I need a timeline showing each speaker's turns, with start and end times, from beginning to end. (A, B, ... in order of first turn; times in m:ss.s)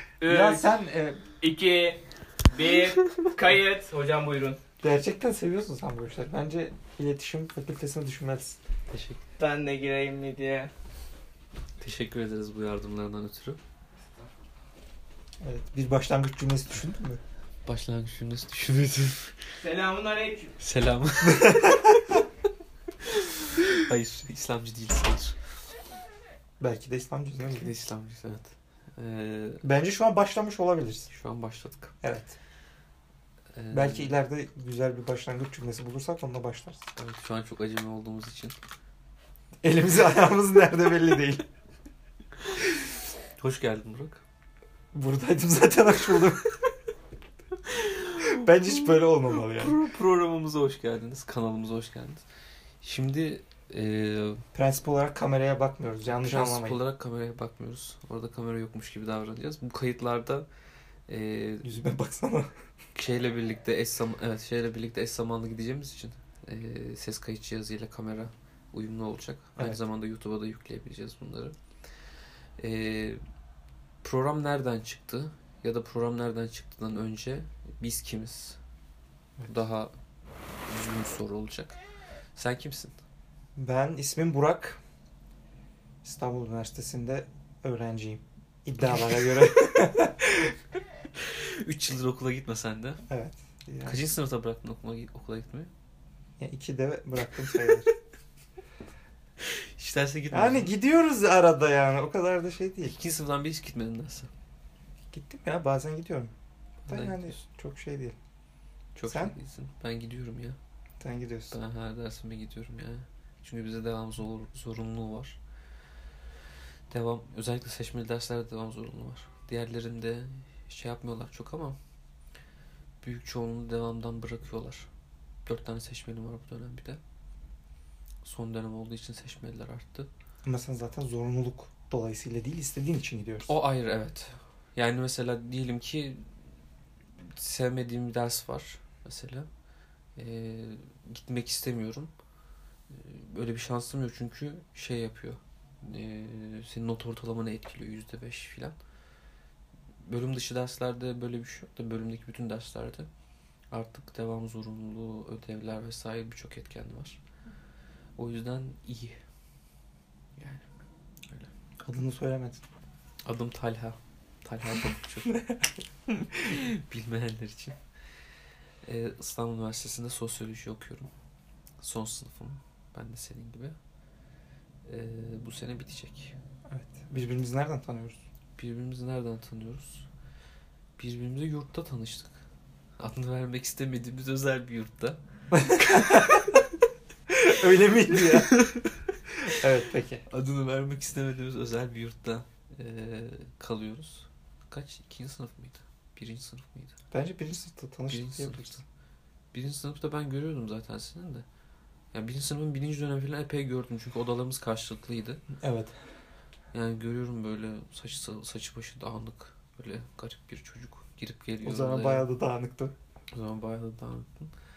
0:00.2-0:00.6 A
0:00.2-0:01.2 B
0:01.4-0:04.6 A
0:04.8-0:08.6 B
0:08.9-0:09.2 C
0:09.4-0:10.7 A
0:11.8-0:13.6 C
0:15.4-0:17.2 B
0:17.6-0:19.4 C
0:19.6-0:20.6 A
0:20.6-0:21.8 C
0:21.2-0:22.0 B
0:23.0-0:25.4 C
0:26.6-0:27.7 B
0:27.5-0:29.6 C
0:29.6-0:31.1 B
0:31.1-0:31.9 C
0:32.0-0:32.4 B
0:33.5-0:34.2 C
0:33.7-0:36.8 B
0:37.0-0:38.6 C
0:39.6-0:41.4 B
0:43.4-0:44.2 C
0:44.9-0:46.5 B
0:47.6-0:52.2 C
0:48.2-0:49.8 B
0:52.8-0:54.4 C
0:54.5-0:56.8 B
0:56.1-1:00.4 C
1:01.1-1:01.7 C
1:01.6-1:02.5 B
1:02.9-1:11.6 C
1:12.6-1:13.2 C
1:14.0-1:18.6 C
1:19.5-1:19.9 C
1:20.6-1:21.8 C
1:22.3-1:23.0 C
1:23.6-1:24.8 B
1:26.0-1:30.6 B
1:31.2-1:33.0 C
1:33.1-1:34.0 B
1:33.8-1:35.7 C
1:36.4-1:37.9 B
1:39.4-1:40.7 C
1:40.3-1:43.0 B
1:42.8-1:44.3 C
1:45.1-1:46.3 B
1:46.8-1:47.4 C
1:46.9-1:48.2 B
1:48.9-1:50.6 C
1:49.0-1:49.3 B
1:51.0-1:51.6 B
1:51.5-1:55.4 C
1:56.9-2:01.8 C
2:03.0-2:04.9 C
2:05.4-2:07.0 C
2:08.2-2:10.1 C
2:10.4-2:13.5 B
2:13.4-2:16.3 C
2:17.2-2:19.5 C
2:20.2-2:22.1 C
2:22.9-2:28.8 C
2:30.0-2:33.1 C
2:33.7-2:37.2 C
2:38.2-2:39.2 C
2:40.4-2:40.6 C
2:41.8-2:42.6 B
2:43.2-2:45.4 C
2:46.3-2:47.8 C
2:48.8-2:51.1 C
2:51.8-2:53.8 C
2:54.8-2:56.3 C
2:56.7-2:58.2 B
2:58.6-3:00.1 C
3:01.0-3:02.4 C
3:03.0-3:06.6 C
3:05.5-3:06.5 B
3:07.3-3:08.6 B
3:08.1-3:09.2 C
3:09.4-3:10.2 B
3:10.3-3:17.0 C
3:17.1-3:18.8 B
3:18.1-3:18.8 C
3:19.5-3:21.4 C
3:22.1-3:25.4 C
3:25.6-3:26.0 B
3:26.7-3:32.2 C
3:31.6-3:32.9 B
3:33.3-3:34.5 C